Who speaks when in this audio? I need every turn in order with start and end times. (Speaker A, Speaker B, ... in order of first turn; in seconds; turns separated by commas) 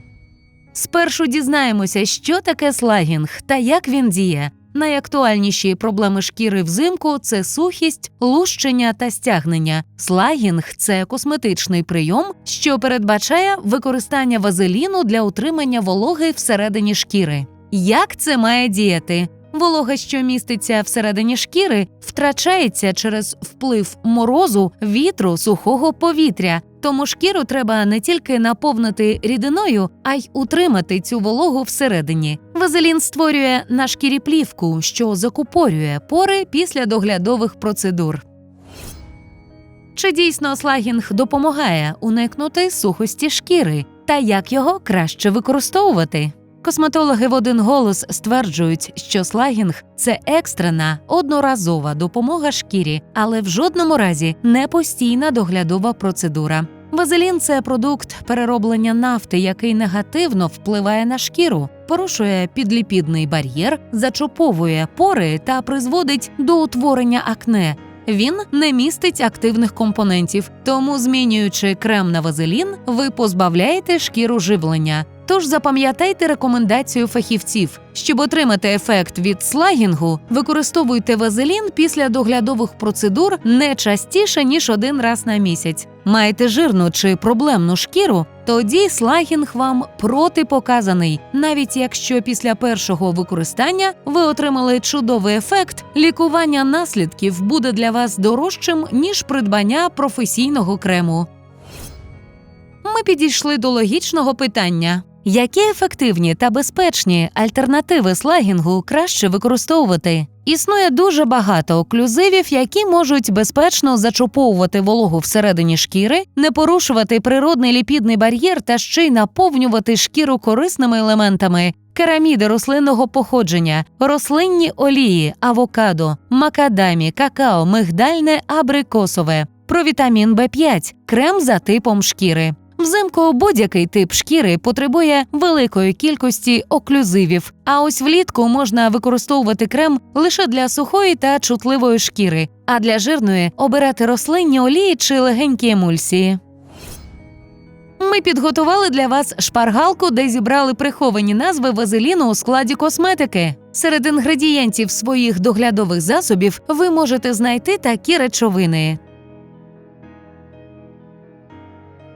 Speaker A: 0.7-38.2, Speaker A: 40.0-101.3, Speaker A: 102.8-146.4, Speaker A: 148.0-159.0